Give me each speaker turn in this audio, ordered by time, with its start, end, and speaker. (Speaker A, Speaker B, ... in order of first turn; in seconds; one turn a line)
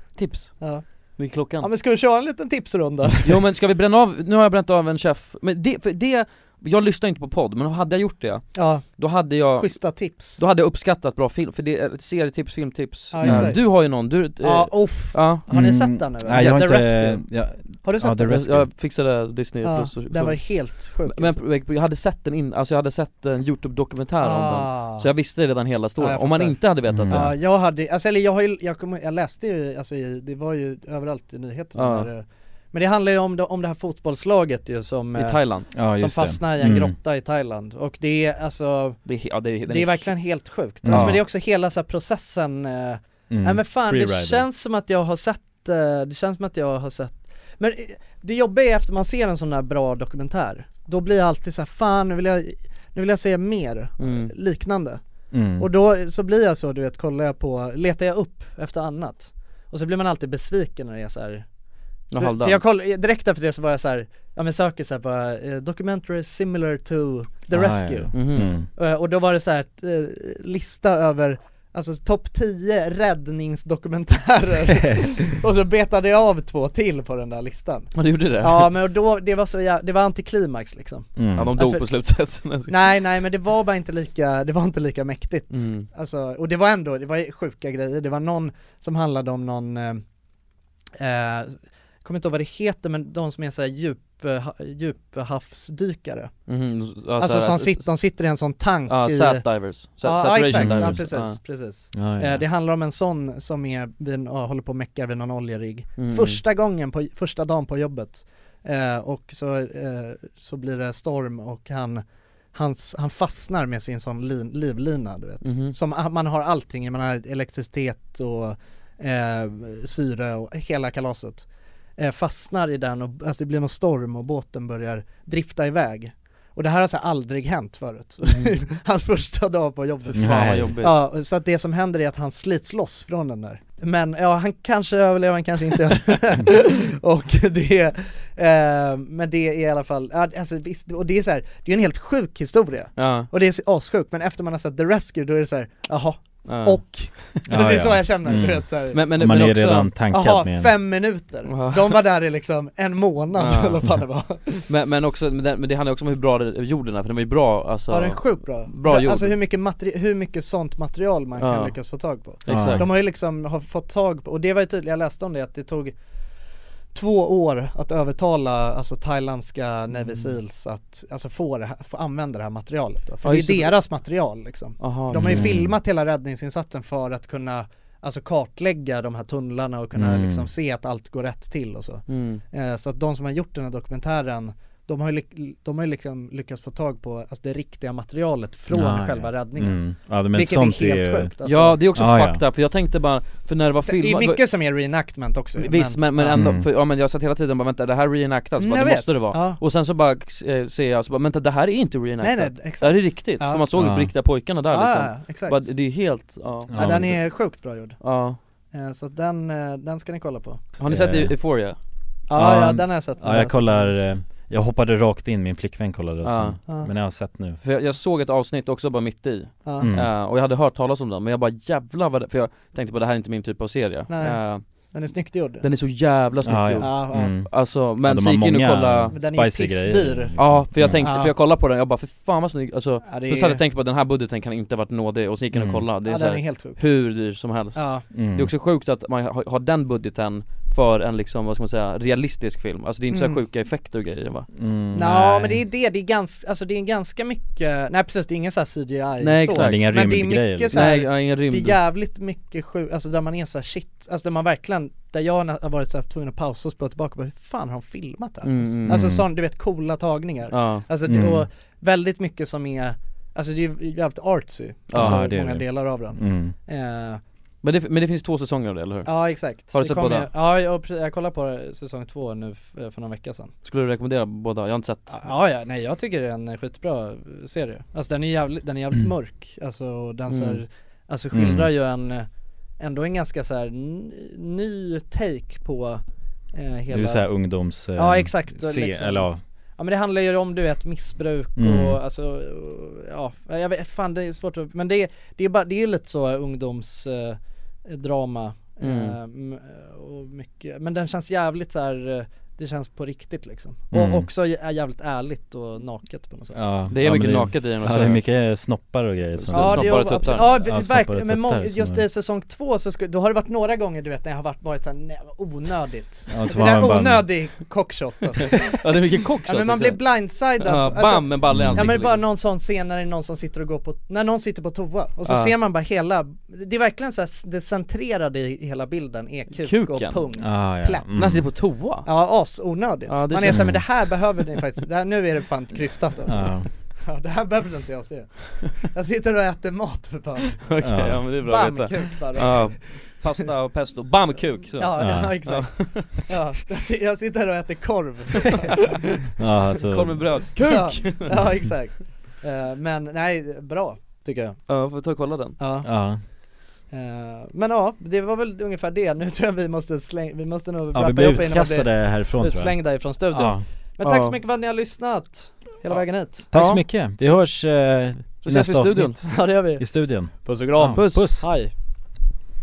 Speaker A: 0.2-1.7
Speaker B: 1.6-3.4
Speaker A: 3.2-15.4
Speaker B: 8.5-10.4
Speaker B: 13.1-17.2
Speaker C: 13.2-13.6
Speaker C: 15.5-18.7
Speaker B: 17.8-18.4
Speaker A: 18.3-27.4
Speaker B: 19.6-21.4
Speaker B: 24.2-25.1
Speaker B: 26.0-39.0
Speaker C: 26.9-27.4
Speaker A: 31.8-32.1
Speaker A: 35.1-35.7
Speaker C: 35.8-37.0
Speaker A: 39.1-40.1
Speaker B: 39.7-55.0
Speaker C: 40.8-41.2
Speaker A: 40.9-41.2
Speaker C: 43.3-44.5
Speaker A: 54.0-54.3
Speaker C: 55.3-55.7
Speaker B: 55.6-61.5
Speaker A: 62.1-62.6
Speaker B: 62.2-81.9
Speaker C: 67.5-68.7
Speaker A: 68.1-68.5
Speaker A: 78.0-78.7
Speaker C: 81.2-81.5
Speaker A: 81.3-82.8
Speaker B: 82.7-90.0
Speaker A: 85.5-85.9
Speaker B: 91.0-96.3
Speaker A: 96.5-97.9
Speaker B: 97.2-99.5
Speaker A: 98.9-101.4
Speaker B: 100.0-112.0
Speaker C: 100.5-101.1
Speaker C: 101.9-102.4
Speaker A: 106.0-106.4
Speaker B: 112.5-121.5
Speaker A: 115.4-115.8
Speaker B: 122.0-149.1
Speaker A: 128.3-128.5
Speaker A: 130.0-131.0
Speaker C: 130.2-130.8
Speaker A: 143.0-143.3
Speaker A: 146.5-147.3
Speaker C: 147.5-150.7
Speaker A: 148.9-149.9
Speaker B: 150.1-154.7
Speaker A: 151.4-152.0
Speaker A: 153.4-153.8
Speaker A: 154.7-159.4
Speaker B: 157.9-165.9
Speaker A: 161.4-161.8
Speaker A: 162.4-162.9
Speaker C: 162.5-162.9
Speaker B: 166.9-191.8
Speaker A: 169.9-170.3
Speaker A: 173.2-173.8
Speaker A: 174.8-175.6
Speaker C: 175.2-175.7
Speaker C: 179.9-180.5
Speaker A: 182.1-182.4
Speaker C: 188.7-191.3
Speaker A: 191.4-194.4
Speaker C: 191.9-192.4
Speaker B: 193.8-196.5
Speaker A: 195.6-206.7
Speaker C: 196.3-196.7
Speaker B: 198.6-199.6
Speaker B: 202.2-203.7
Speaker C: 203.8-204.1
Speaker B: 204.7-205.7
Speaker C: 206.7-207.2
Speaker B: 206.7-208.0
Speaker A: 208.0-208.4
Speaker B: 208.7-210.7
Speaker A: 210.8-211.8
Speaker C: 210.8-211.3
Speaker B: 212.3-214.0
Speaker C: 212.3-217.6
Speaker A: 216.2-216.6
Speaker A: 217.6-224.9
Speaker B: 219.7-219.9
Speaker C: 219.8-220.1
Speaker B: 224.1-225.7
Speaker A: 225.6-229.2
Speaker C: 226.4-231.1
Speaker B: 226.8-227.4
Speaker B: 229.1-231.3
Speaker A: 230.4-244.5
Speaker B: 233.1-233.6
Speaker C: 235.5-235.8
Speaker B: 236.1-236.8
Speaker B: 237.8-238.1
Speaker C: 238.1-238.5
Speaker B: 243.1-243.4
Speaker C: 244.6-245.6
Speaker B: 244.9-267.2
Speaker A: 249.2-249.9
Speaker C: 249.5-250.9
Speaker A: 250.7-251.8
Speaker A: 258.4-259.0
Speaker C: 258.9-259.3
Speaker A: 260.5-260.9
Speaker C: 261.1-261.5
Speaker A: 264.9-265.2
Speaker C: 264.9-266.5
Speaker A: 267.6-269.1
Speaker B: 269.1-273.5
Speaker A: 269.7-270.3
Speaker A: 273.6-275.2
Speaker B: 275.1-282.3
Speaker A: 280.3-280.6
Speaker C: 281.3-281.7
Speaker B: 282.8-286.0
Speaker B: 286.5-287.2
Speaker C: 286.9-289.4
Speaker B: 288.0-306.6
Speaker C: 291.6-292.0
Speaker A: 298.8-299.2
Speaker C: 303.9-304.3
Speaker C: 306.5-312.1
Speaker A: 306.9-308.2
Speaker A: 309.4-310.6
Speaker B: 309.5-318.9
Speaker C: 316.3-317.3
Speaker A: 318.6-320.0
Speaker B: 319.5-331.1
Speaker A: 320.6-322.2
Speaker C: 321.5-321.9
Speaker A: 325.3-325.5
Speaker A: 329.5-330.2
Speaker C: 330.4-331.5
Speaker A: 331.2-332.1
Speaker B: 332.1-340.7
Speaker A: 333.1-334.1
Speaker C: 333.5-333.8
Speaker C: 336.3-336.7
Speaker A: 340.6-346.3
Speaker C: 340.8-341.2
Speaker B: 341.4-343.4
Speaker B: 344.8-349.0
Speaker C: 345.0-345.4
Speaker C: 349.4-350.4
Speaker A: 349.9-351.5
Speaker B: 350.6-354.6
Speaker A: 354.7-355.6
Speaker B: 355.6-355.9
Speaker C: 355.8-356.2
Speaker B: 356.9-366.5
Speaker C: 360.9-363.6
Speaker A: 364.0-364.4
Speaker A: 365.9-366.8
Speaker C: 366.5-371.5
Speaker A: 368.4-369.2
Speaker B: 369.2-369.9
Speaker B: 370.4-371.7
Speaker A: 370.9-371.3